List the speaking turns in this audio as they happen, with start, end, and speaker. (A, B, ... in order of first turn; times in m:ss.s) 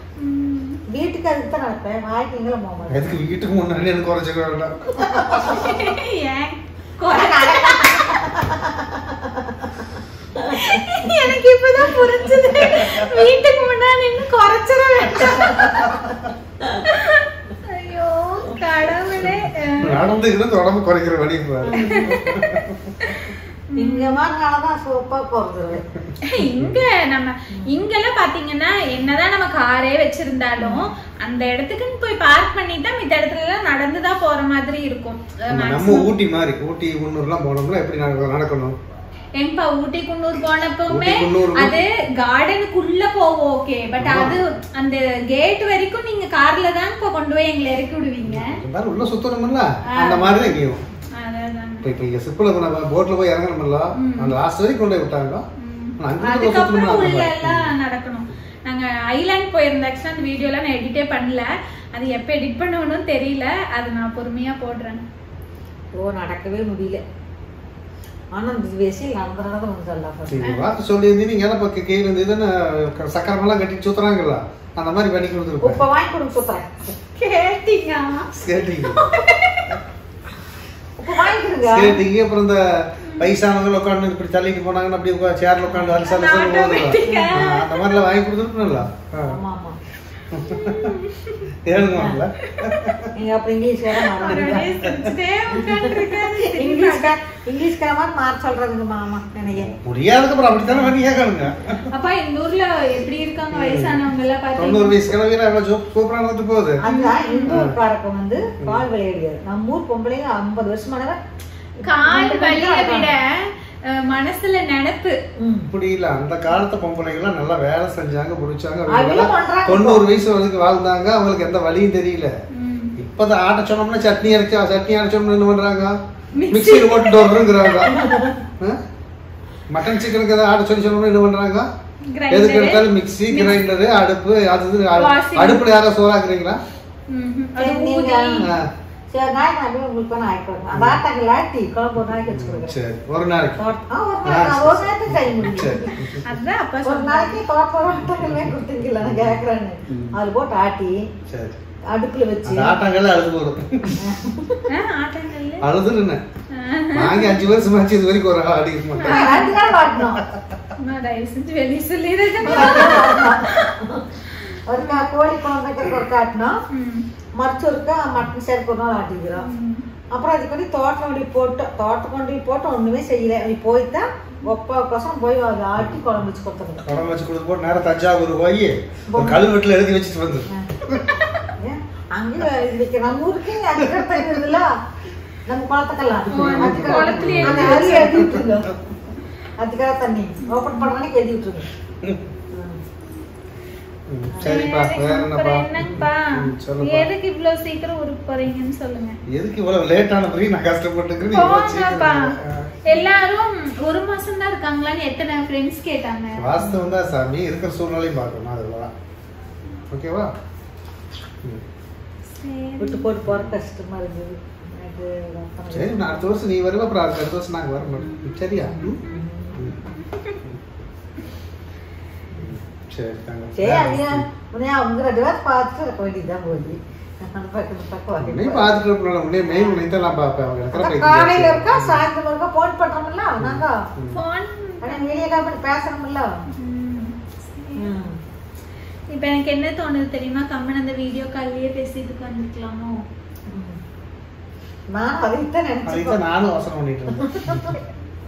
0:00.2-0:00.8 A
0:00.9-0:03.2 B
0:02.9-0:05.6 C
0:05.0-0:05.5 B
0:05.4-0:08.1 A
0:07.1-0:12.8 B
0:10.5-0:15.9 A
0:16.9-0:20.1 A
0:19.8-0:22.9 C
0:21.6-0:22.5 B
0:21.8-0:22.4 A
0:23.0-0:24.2 A
0:23.8-0:25.8 B
0:26.3-0:36.1 A
0:26.4-0:26.8 C
0:27.6-0:27.8 B
0:30.6-0:30.9 B
0:35.5-0:38.8 C
0:39.4-0:48.5 A
0:40.9-0:41.8 C
0:44.0-0:44.4 C
0:48.3-0:50.8 C
0:49.9-0:50.5 A
0:51.2-0:51.8 A
0:51.8-0:55.4 C
0:54.0-0:54.4 A
0:55.6-1:05.0 A
0:56.0-0:57.7 C
1:06.0-1:07.0 B
1:08.3-1:10.5 B
1:10.3-1:15.8 C
1:10.4-1:10.7 A
1:15.6-1:16.9 B
1:17.2-1:19.7 A
1:18.3-1:19.1 C
1:21.0-1:22.0 B
1:21.7-1:22.6 C
1:23.1-1:23.4 A
1:23.2-1:29.4 C
1:25.6-1:26.1 B
1:26.0-1:27.9 A
1:27.1-1:27.4 B
1:28.6-1:29.8 B
1:30.3-1:31.0 C
1:30.4-1:31.4 A
1:31.6-1:33.1 C
1:31.8-1:32.2 B
1:32.6-1:32.9 A
1:33.2-1:34.7 B
1:34.2-1:37.2 A
1:34.9-1:35.1 C
1:35.5-1:39.7 B
1:39.5-1:41.9 C
1:40.7-1:41.0 B
1:41.9-1:45.0 A
1:43.5-1:44.0 C
1:44.6-1:46.8 C
1:46.8-1:51.2 B
1:46.8-1:47.6 A
1:47.5-1:47.8 C
1:48.6-1:48.9 C
1:51.8-1:53.2 B
1:51.8-1:55.2 A
1:55.4-1:55.7 B
1:55.7-2:02.3 C
1:58.9-2:00.0 B
2:02.6-2:02.9 A
2:03.0-2:05.9 C
2:06.4-2:07.7 A
2:06.5-2:08.1 C
2:07.9-2:08.4 B
2:09.7-2:11.7 C
2:12.1-2:13.6 A
2:12.3-2:16.6 C
2:15.0-2:15.6 A
2:17.1-2:18.4 A
2:17.6-2:18.5 B
2:18.4-2:18.7 C
2:19.1-2:22.8 B
2:20.7-2:21.0 C
2:22.3-2:23.6 C
2:23.6-2:26.1 B
2:24.2-2:26.2 C
2:26.2-2:27.4 A
2:26.8-2:31.0 B
2:29.0-2:30.2 C
2:31.3-2:31.6 C
2:31.9-2:32.8 B
2:32.5-2:34.0 C
2:34.0-2:34.6 B
2:34.7-2:35.7 A
2:35.6-2:36.2 C
2:36.6-2:37.4 A
2:36.9-2:39.4 C
2:39.0-2:39.5 A
2:39.1-2:40.2 B
2:40.8-2:43.7 A
2:42.5-2:44.0 B
2:44.7-2:46.5 B
2:44.8-2:45.1 A
2:46.7-2:47.0 A
2:47.4-2:49.5 B
2:49.4-2:49.8 A
2:50.1-2:56.8 B
2:55.8-2:56.2 C
2:56.8-3:01.2 C
2:59.1-2:59.5 B
3:01.6-3:04.7 B
3:03.8-3:04.4 C
3:05.5-3:08.7 B
3:06.3-3:08.7 C
3:06.3-3:08.3 A
3:09.6-3:11.7 B
3:14.1-3:17.1 C
3:14.3-3:14.6 B
3:14.4-3:16.3 A
3:16.8-3:19.2 A
3:19.3-3:22.7 C
3:21.3-3:22.3 A
3:22.8-3:26.5 A
3:26.4-3:28.9 C
3:26.6-3:27.0 B
3:29.9-3:30.3 C
3:32.4-3:33.1 A
3:32.8-3:36.3 B
3:33.2-3:33.6 C
3:35.7-3:39.0 C
3:38.0-3:39.2 A
3:38.6-3:39.8 B
3:39.8-3:40.4 A
3:42.3-3:44.3 C
3:43.6-3:48.8 B
3:48.2-3:52.0 C
3:50.7-3:53.7 B
3:53.4-3:54.2 C
3:54.1-3:55.0 A
3:54.8-3:56.2 B
3:56.6-3:57.9 A
3:57.8-3:58.2 B
3:59.1-4:03.0 A
4:03.5-4:03.8 B
4:04.9-4:06.2 B
4:05.9-4:07.7 C
4:07.1-4:07.8 B